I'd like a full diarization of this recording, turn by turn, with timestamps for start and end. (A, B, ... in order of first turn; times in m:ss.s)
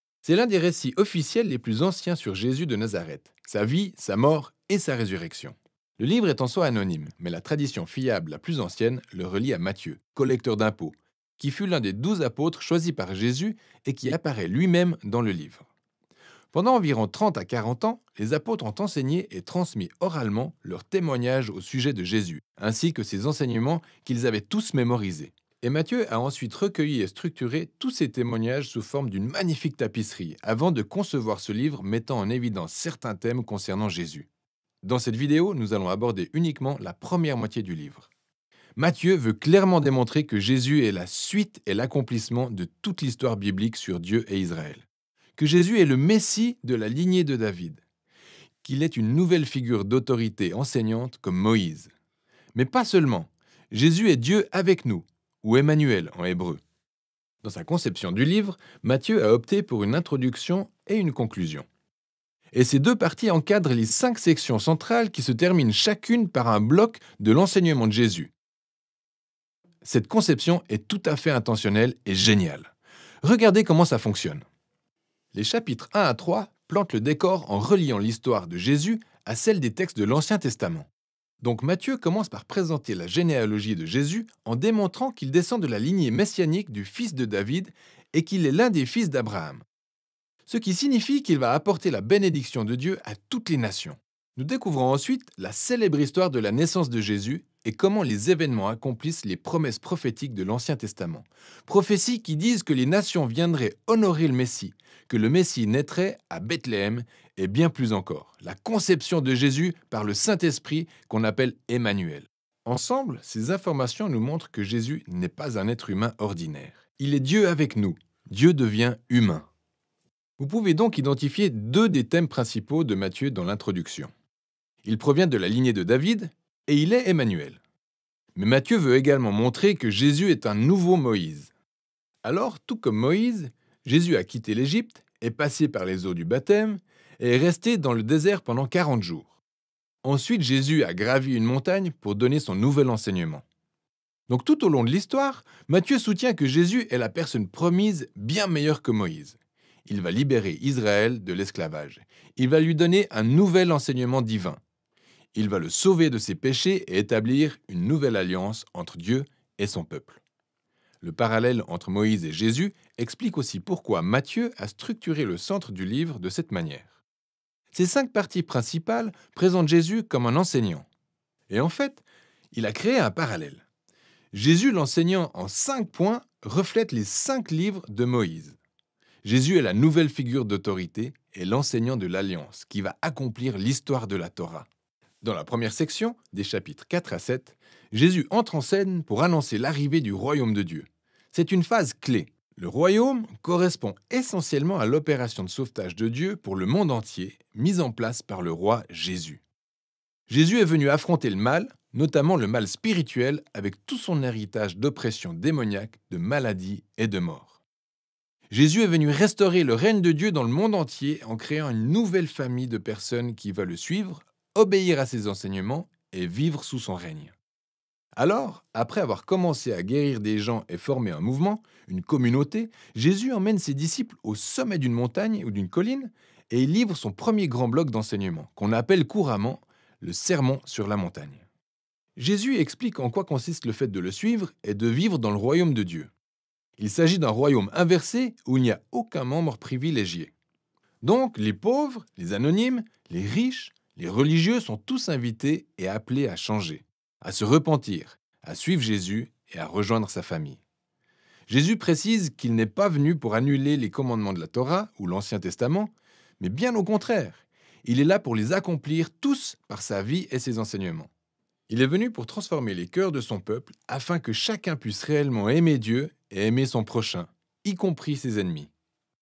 0:00.2-0:15.6 A
0:16.5-0:34.3 A
0:34.8-0:38.1 A
0:38.8-0:44.8 A
0:45.4-0:47.8 A
0:48.6-0:51.9 A
0:52.5-0:56.6 A
0:57.4-1:01.6 A
1:02.5-1:08.3 A
1:09.8-1:12.7 A
1:13.2-1:14.4 A
1:15.3-1:20.9 A
1:21.4-1:29.6 A
1:30.5-1:59.5 A
2:00.4-2:04.1 A
2:04.8-2:07.6 A
2:08.3-2:11.5 A
2:12.2-2:19.4 A
2:20.0-2:23.4 A
2:24.3-2:34.6 A
2:35.3-2:40.2 A
2:41.0-2:47.0 A
2:47.7-2:50.8 A
2:51.5-2:53.6 A
2:54.3-2:58.6 A
2:59.2-3:04.7 A
3:05.2-3:19.4 A
3:20.3-3:27.6 A
3:28.5-3:37.3 A
3:38.2-3:51.4 A
3:52.2-3:56.1 A
3:56.8-4:00.3 A
4:01.0-4:10.6 A
4:11.5-4:21.1 A
4:21.7-4:28.7 A